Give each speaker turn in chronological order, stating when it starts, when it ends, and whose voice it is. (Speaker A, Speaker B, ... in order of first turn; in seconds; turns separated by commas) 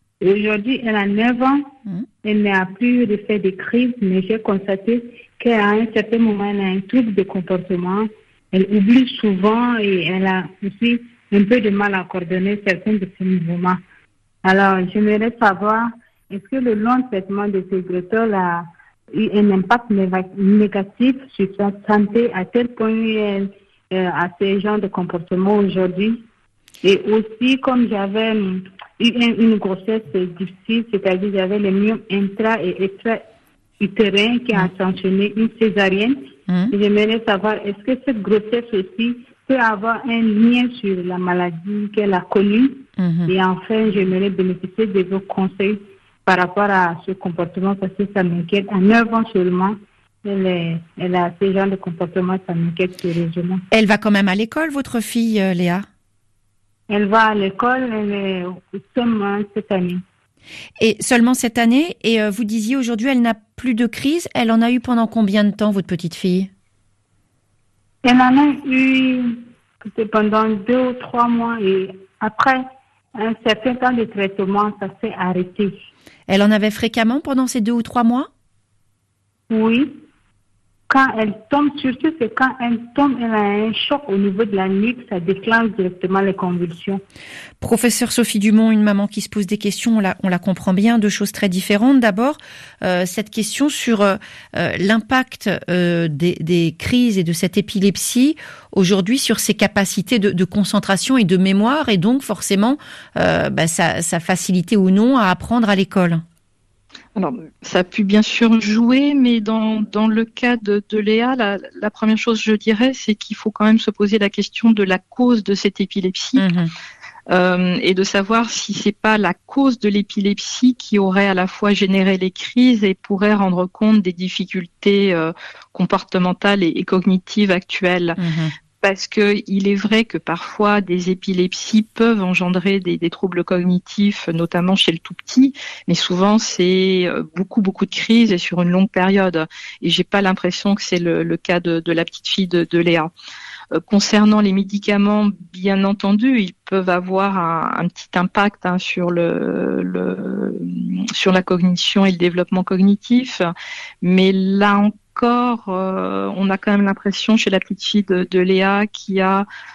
Speaker A: 0.2-1.7, Speaker A: 2.2-13.8, Speaker A: 14.4-26.2, Speaker A: 26.8-33.2, Speaker A: 33.8-36.2, Speaker B: 36.5-36.7, Speaker A: 36.7-53.6, Speaker B: 43.0-43.3, Speaker B: 53.7-55.9, Speaker A: 56.9-60.0, Speaker B: 60.8-66.5, Speaker A: 68.0-72.6, Speaker A: 73.2-75.8, Speaker B: 76.3-78.3, Speaker A: 79.5-80.0, Speaker A: 80.9-87.0, Speaker B: 87.6-106.2, Speaker C: 107.2-116.5, Speaker B: 116.4-116.7, Speaker C: 117.3-128.2, Speaker B: 128.2-128.5, Speaker C: 128.8-143.1, Speaker C: 143.7-153.5, Speaker C: 154.0-159.5